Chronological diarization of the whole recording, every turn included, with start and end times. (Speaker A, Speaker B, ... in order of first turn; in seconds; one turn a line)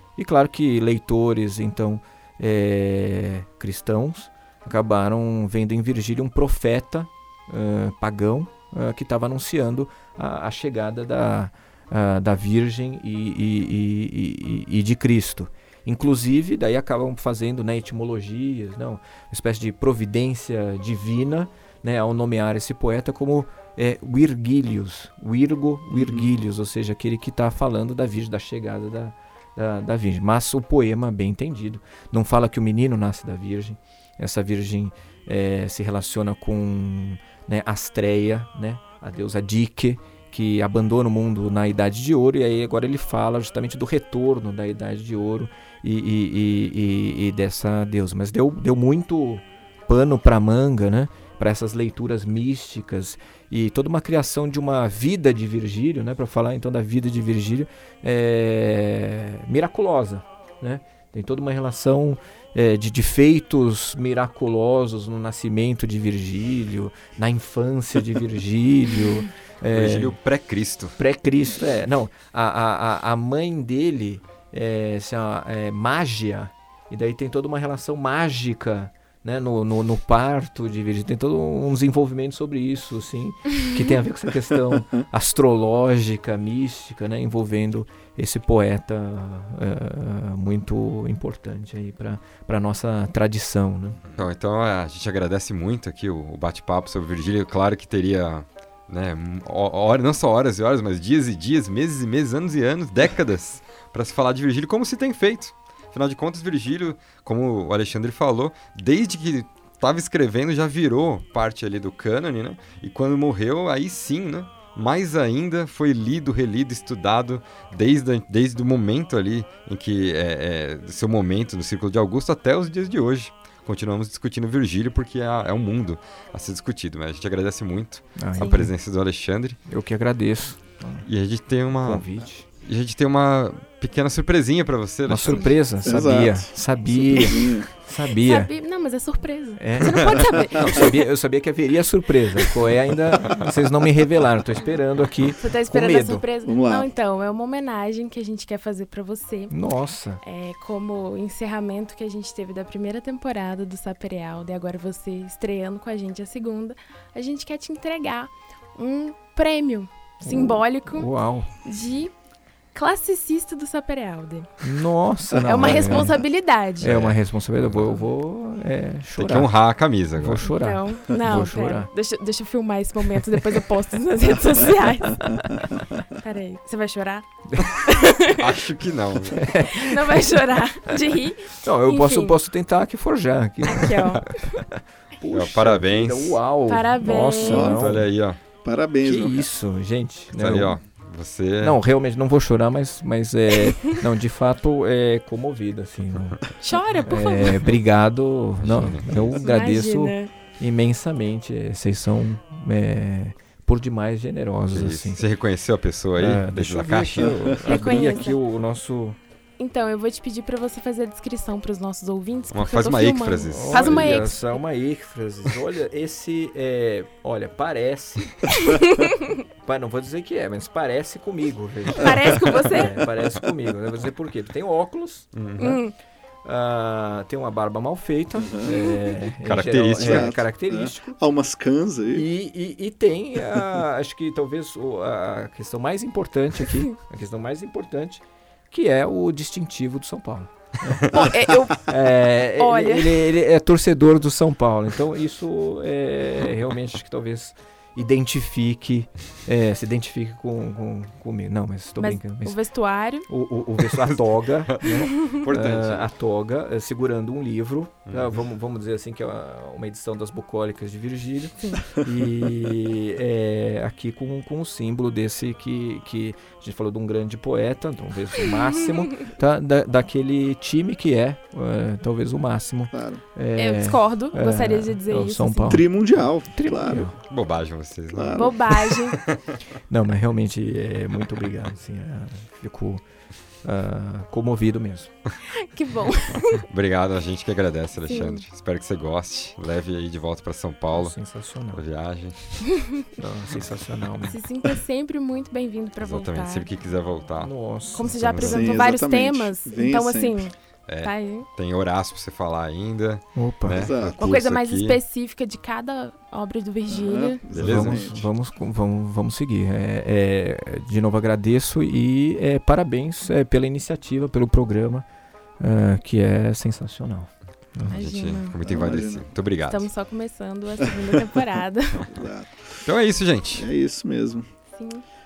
Speaker A: 0.2-70.1
Speaker B: 25.9-26.3
Speaker C: 69.7-70.9
Speaker A: 71.0-94.0
Speaker C: 94.1-129.6
Speaker A: 128.2-128.7
Speaker A: 129.7-131.0
Speaker C: 131.0-132.1
Speaker A: 131.7-132.4
Speaker C: 132.6-135.5
Speaker A: 135.1-138.5
Speaker B: 135.8-137.7
Speaker D: 138.2-141.0
Speaker A: 139.6-146.2
Speaker D: 145.4-149.5
Speaker B: 146.4-146.9
Speaker A: 149.5-150.2
Speaker D: 150.2-161.1
Speaker A: 160.2-161.5
Speaker D: 161.6-162.1
Speaker D: 162.7-164.6
Speaker A: 164.6-166.2
Speaker D: 165.3-166.9
Speaker A: 166.8-169.6
Speaker C: 166.8-168.0
Speaker C: 169.2-170.4
Speaker A: 170.2-171.9
Speaker D: 170.4-178.5
Speaker C: 178.2-179.5
Speaker A: 179.3-180.3
Speaker D: 179.7-182.3
Speaker A: 181.6-188.1
Speaker D: 183.7-184.4
Speaker C: 185.3-186.4
Speaker D: 186.7-187.8
Speaker B: 187.4-188.0
Speaker C: 187.6-188.4
Speaker B: 188.6-189.5
Speaker A: 189.0-190.8
Speaker C: 190.3-191.8
Speaker A: 191.6-196.4
Speaker D: 196.6-197.7
Speaker A: 197.0-205.2
Speaker C: 198.6-199.4
Speaker D: 199.4-200.3
Speaker C: 204.7-207.6
Speaker A: 206.2-209.2
Speaker B: 207.2-207.6
Speaker D: 207.6-208.4
Speaker D: 209.6-214.6
Speaker C: 212.5-214.3
Speaker A: 213.5-218.5
Speaker D: 218.7-219.1
Speaker A: 219.6-225.3
Speaker D: 221.9-223.0
Speaker C: 225.3-225.8
Speaker D: 225.6-225.9
Speaker A: 226.4-231.1
Speaker B: 228.4-228.8
Speaker C: 229.4-230.3
Speaker B: 230.0-232.2
Speaker A: 232.1-241.2
Speaker D: 241.1-241.9
Speaker A: 241.8-252.6
Speaker D: 242.6-243.2
Speaker D: 252.0-253.3
Speaker A: 253.3-275.9
Speaker C: 253.9-256.1
Speaker D: 255.0-255.4
Speaker C: 258.1-258.4
Speaker D: 261.6-261.8
Speaker B: 272.9-273.2
Speaker D: 273.6-275.8
Speaker B: 275.6-277.1
Speaker A: 276.4-277.1
Speaker C: 277.2-279.5
Speaker B: 278.1-278.6
Speaker D: 278.3-279.2
Speaker A: 279.9-283.0
Speaker A: 283.6-285.1
Speaker D: 285.6-286.6
Speaker C: 286.7-291.2
Speaker D: 288.0-288.4
Speaker A: 290.9-291.8
Speaker C: 291.7-292.9
Speaker A: 293.2-294.4
Speaker D: 294.3-296.7
Speaker C: 296.0-298.8
Speaker A: 297.4-298.3
Speaker D: 297.9-301.4
Speaker B: 298.4-300.5
Speaker C: 300.9-305.0
Speaker A: 303.3-303.8
Speaker B: 303.7-304.2
Speaker D: 304.2-307.4
Speaker B: 306.9-308.3
Speaker C: 307.5-308.1
Speaker A: 307.6-315.1
Speaker A: 315.6-317.9
Speaker C: 317.8-319.9
Speaker D: 317.9-318.6
Speaker B: 318.6-319.4
Speaker D: 319.7-322.2
Speaker B: 322.0-322.7
Speaker C: 322.8-323.7
Speaker B: 323.5-324.5
Speaker D: 324.7-325.0